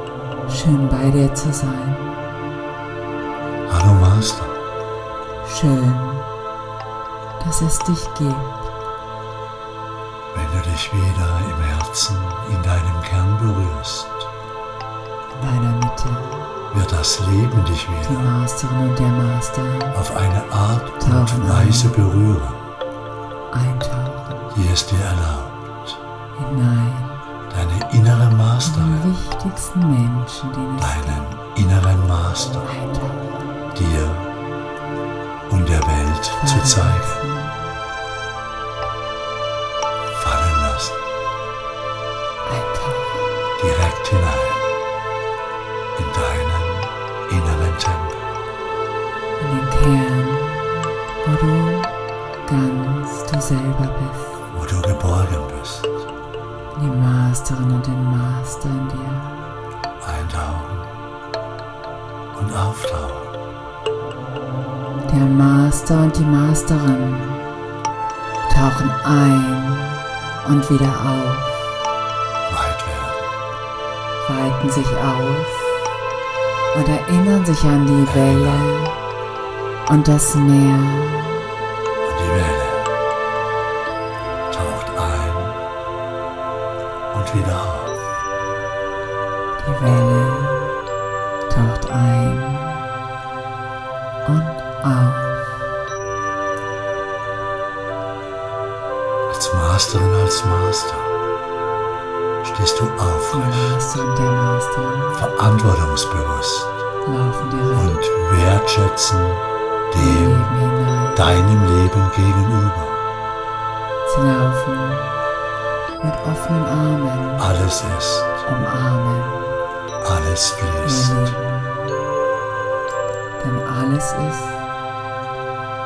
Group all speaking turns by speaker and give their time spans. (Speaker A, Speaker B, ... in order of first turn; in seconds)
Speaker A: 0.5-2.2, 5.4-6.3, 7.4-8.5, 15.3-16.5, 18.0-20.0, 21.0-22.2, 23.5-24.5, 26.4-27.2, 28.6-31.1, 32.6-33.5, 36.4-37.7, 42.5-43.4, 49.4-51.9, 52.4-54.4, 56.7-59.5, 65.1-67.5, 68.5-71.7, 74.2-75.9, 76.7-79.0, 79.9-81.5, 89.6-90.8, 91.5-92.9, 94.2-95.6, 103.3-105.2, 107.0-107.9, 109.9-111.4, 114.0-115.2, 116.0-117.5, 118.5-119.6, 120.8-122.1, 123.4-124.6
Speaker B: 3.6-4.6, 10.3-14.3, 16.7-18.3, 19.9-22.6, 24.5-26.0, 27.5-29.1, 30.8-32.7, 33.7-34.3, 35.5-37.2, 40.1-41.0, 43.6-44.7, 46.0-48.3, 54.5-56.0, 60.0-60.9, 62.3-63.4, 72.5-73.3, 78.1-78.7, 82.0-82.9, 84.5-85.6, 87.1-88.0, 99.3-101.2, 102.4-103.8, 105.1-106.8, 107.8-110.6, 111.2-113.0, 117.4-118.5, 120.0-121.3